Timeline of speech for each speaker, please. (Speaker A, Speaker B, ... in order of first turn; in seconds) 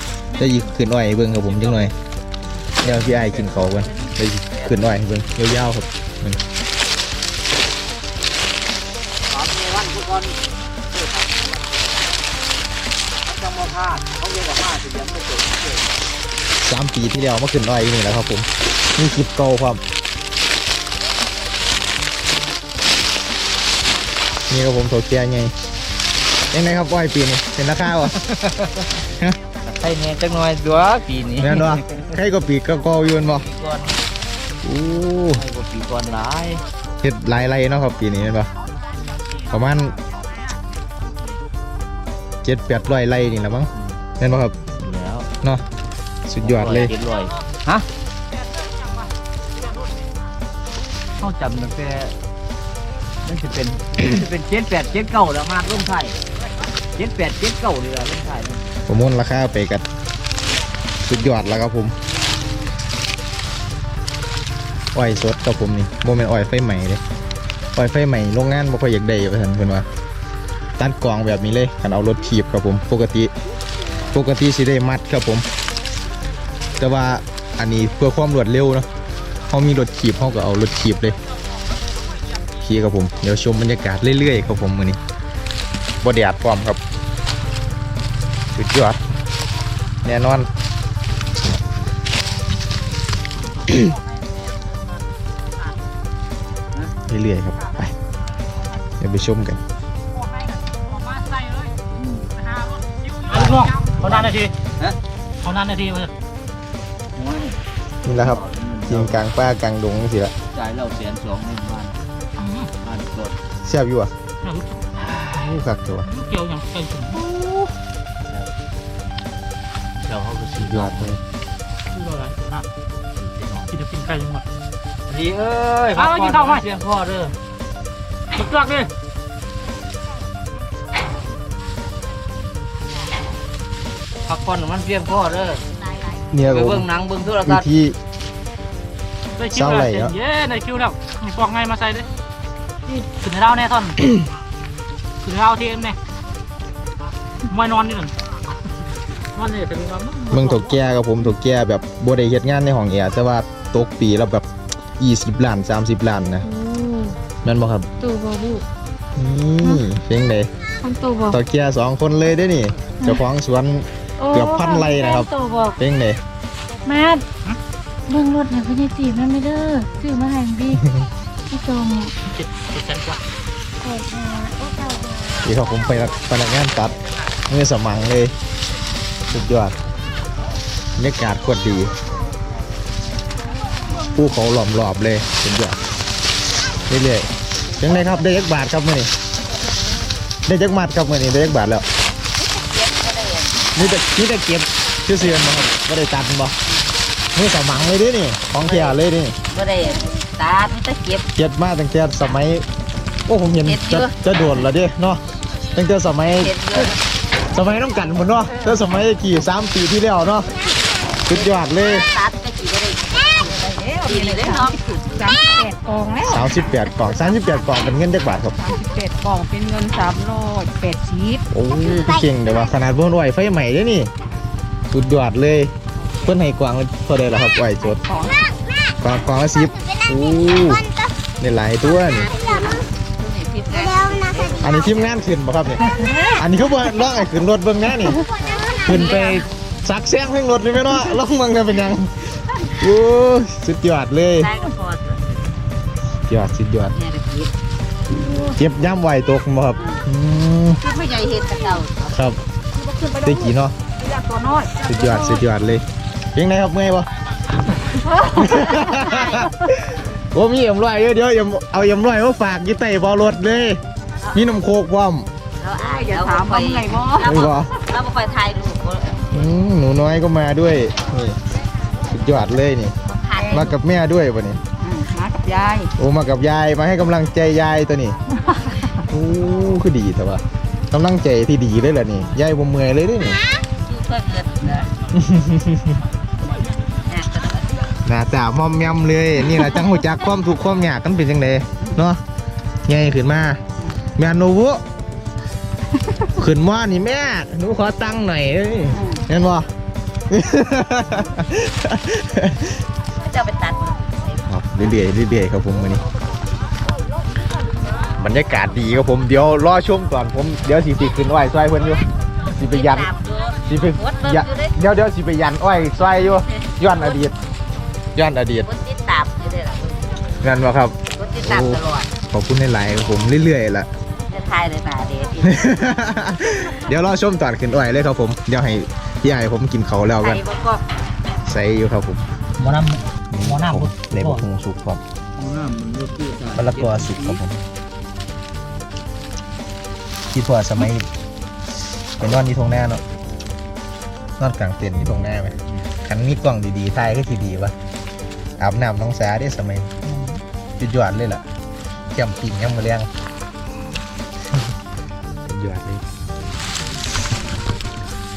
Speaker A: 0.4-1.9, 2.8-6.4, 16.6-19.8, 24.5-25.5, 26.5-28.1, 31.4-33.5, 34.6-35.4, 37.0-38.5, 39.5-40.0, 42.4-44.5, 46.3-46.9, 58.9-59.8, 61.0-61.9, 64.9-67.0, 67.7-69.9, 70.8-73.3, 74.1-75.4, 76.8-78.9, 79.5-81.2, 82.6-85.0, 86.0-86.8, 88.5-89.0, 90.0-90.5, 97.1-97.9, 99.0-99.6, 108.0-110.3, 113.6-114.1, 115.2-116.1, 117.1-117.7, 120.6-121.2, 136.3-136.9, 137.4-138.0, 139.5-140.1, 150.3-154.4, 155.0-156.4, 157.4-157.9, 159.2-160.5, 161.3-166.2, 170.8-171.1, 175.4-176.9, 177.5-178.3, 179.3-179.8, 181.0-181.9, 184.1-185.8, 186.9-189.1, 190.4-191.8, 193.7-196.5, 197.3-199.3, 201.3-202.6, 203.3-205.2, 205.7-206.5, 207.5-210.5, 211.2-212.1, 216.2-218.6, 221.5-224.1, 224.9-225.7, 226.2-228.0, 229.0-230.9, 231.4-232.3, 234.6-238.2, 238.8-244.5, 246.3-247.0, 248.5-250.8, 252.0-252.4, 253.2-253.7, 254.8-257.1, 258.3-263.8, 264.3-265.3, 267.2-267.7, 269.3-271.4, 272.1-272.9, 273.5-274.6, 276.0-278.1, 279.1-283.4, 285.1-286.0, 288.0-292.2, 292.9-293.6, 294.2-294.8, 296.4-299.7, 300.3-302.7, 304.5-306.0, 308.2-313.1, 313.6-317.3, 318.1-318.7, 320.4-323.9, 325.4-330.4, 331.4-332.3, 333.3-335.0, 336.6-337.6, 340.3-341.1, 342.2-343.0, 344.4-347.7, 348.6-349.9, 350.8-351.4, 352.1-353.1, 355.5-356.0
Speaker B: 1.4-1.9, 48.6-49.0, 100.3-104.5, 105.4-106.1, 112.4-112.7, 114.4-114.8, 116.0-117.2, 121.9-122.7, 123.7-124.4, 126.0-126.6, 128.3-128.9, 139.4-142.1, 142.9-144.0, 145.2-146.0, 147.4-148.1, 149.3-150.8, 172.3-173.2, 248.2-248.6, 254.0-255.4, 332.6-334.4, 350.1-350.4
Speaker C: 2.8-4.1, 9.3-12.3, 13.2-16.0, 28.1-28.8, 29.6-32.1, 33.2-34.0, 35.3-36.6, 44.8-45.3, 46.4-47.9, 51.2-52.1, 53.2-56.2, 57.0-58.7, 103.3-105.0, 107.2-107.5, 108.1-109.2, 110.5-112.0, 112.8-113.4, 115.0-115.3, 119.9-121.2, 123.1-123.7, 125.1-127.3, 134.2-135.6, 136.4-137.7, 335.4-337.4
Speaker D: 156.4-157.2, 158.0-158.6, 160.8-161.4, 164.2-165.8, 166.8-167.2, 168.1-170.8, 171.5-172.1, 173.8-175.5, 213.3-217.7, 218.6-221.4, 227.8-228.4, 235.9-236.3, 258.0-259.0, 265.8-267.3, 273.3-273.6, 274.8-275.9
Speaker E: 192.3-194.0, 198.6-199.0, 199.5-201.2, 203.6-204.2, 206.4-207.0, 211.3-215.1, 232.0-235.1, 238.5-239.4, 244.4-245.2, 246.9-247.5, 250.8-252.1, 258.4-259.5, 265.6-269.4, 273.0-273.8, 283.8-284.9, 287.0-287.9, 298.9-299.3, 303.2-304.3, 312.6-314.8, 316.2-317.1, 318.6-320.3, 321.1-322.1, 324.3-325.7, 330.2-330.8